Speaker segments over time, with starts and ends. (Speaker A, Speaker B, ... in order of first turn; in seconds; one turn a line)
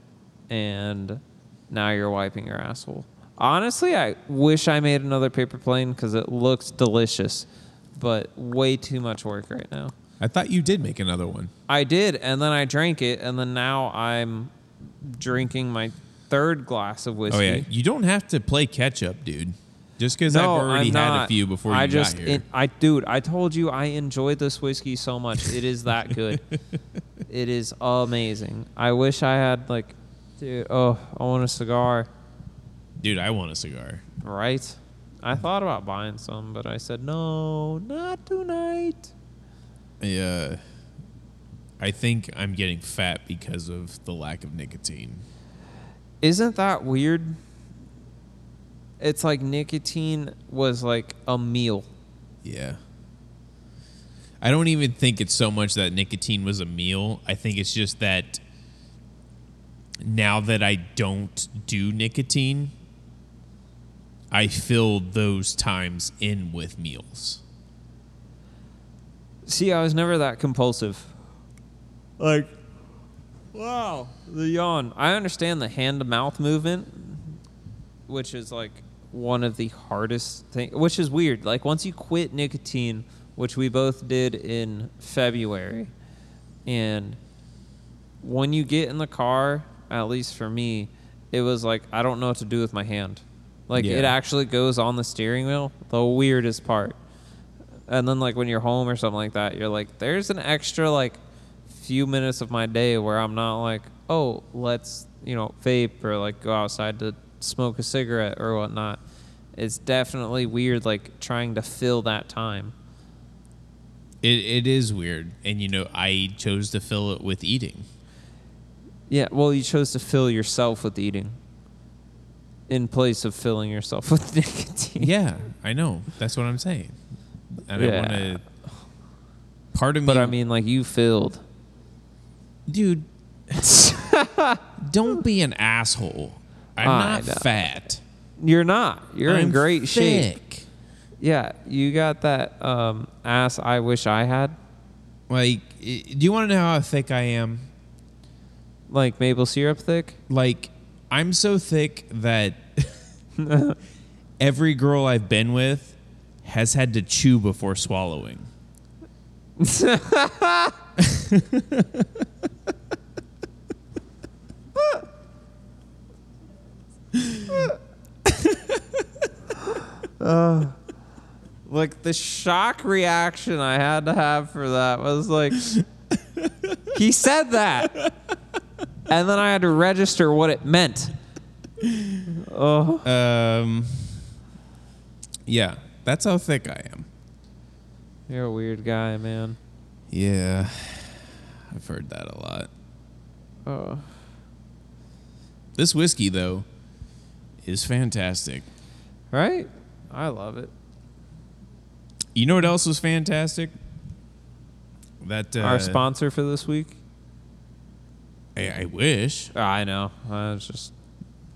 Speaker A: 0.5-9.9
Speaker B: 10.2-11.5
Speaker A: 11.7-17.6
Speaker B: 17.3-22.4
Speaker A: 20.3-26.4
Speaker A: 27.3-32.1
Speaker B: 33.0-34.0
Speaker A: 34.2-39.1
Speaker B: 40.0-40.6
Speaker B: 41.8-45.2
Speaker A: 46.2-47.4
Speaker A: 49.0-51.9
Speaker B: 52.4-52.8
Speaker B: 54.4-58.4
Speaker B: 60.0-62.7
Speaker B: 64.3-67.4
Speaker A: 69.5-71.1
Speaker A: 72.2-72.5
Speaker A: 73.5-77.4
Speaker A: 78.1-85.9
Speaker A: 86.7-87.2
Speaker A: 88.2-97.0
Speaker B: 93.8-94.1
Speaker A: 97.9-109.0
Speaker A: 109.5-112.7
Speaker B: 114.2-117.9
Speaker A: 119.1-121.4
Speaker A: 122.7-125.1
Speaker B: 125.0-126.9
Speaker B: 127.7-128.4
Speaker A: 127.8-128.4
Speaker B: 129.7-130.3
Speaker A: 130.0-131.4
Speaker B: 132.7-133.7
Speaker A: 133.6-134.6
Speaker B: 134.8-138.0
Speaker A: 136.8-137.4
Speaker A: 138.4-140.3
Speaker B: 139.2-140.7
Speaker A: 141.2-144.6
Speaker B: 145.3-147.7
Speaker A: 148.9-150.2
Speaker B: 150.3-153.0
Speaker A: 153.4-153.8
Speaker B: 154.4-158.5
Speaker A: 159.6-160.8
Speaker B: 161.0-162.1
Speaker B: 167.1-167.7
Speaker A: 167.5-167.7
Speaker B: 168.4-168.8
Speaker A: 169.6-170.8
Speaker A: 171.7-175.7
Speaker B: 176.4-176.8
Speaker A: 176.9-177.9
Speaker A: 179.1-181.1
Speaker B: 181.8-182.2
Speaker A: 182.3-183.1
Speaker B: 183.0-184.2
Speaker B: 185.4-187.1
Speaker A: 188.3-189.6
Speaker B: 190.1-192.7
Speaker A: 193.7-194.1
Speaker B: 195.8-196.7
Speaker B: 197.6-198.7
Speaker A: 199.3-200.7
Speaker B: 202.3-203.7
Speaker B: 205.2-206.1
Speaker A: 205.6-207.0
Speaker B: 208.6-209.5
Speaker A: 209.5-210.9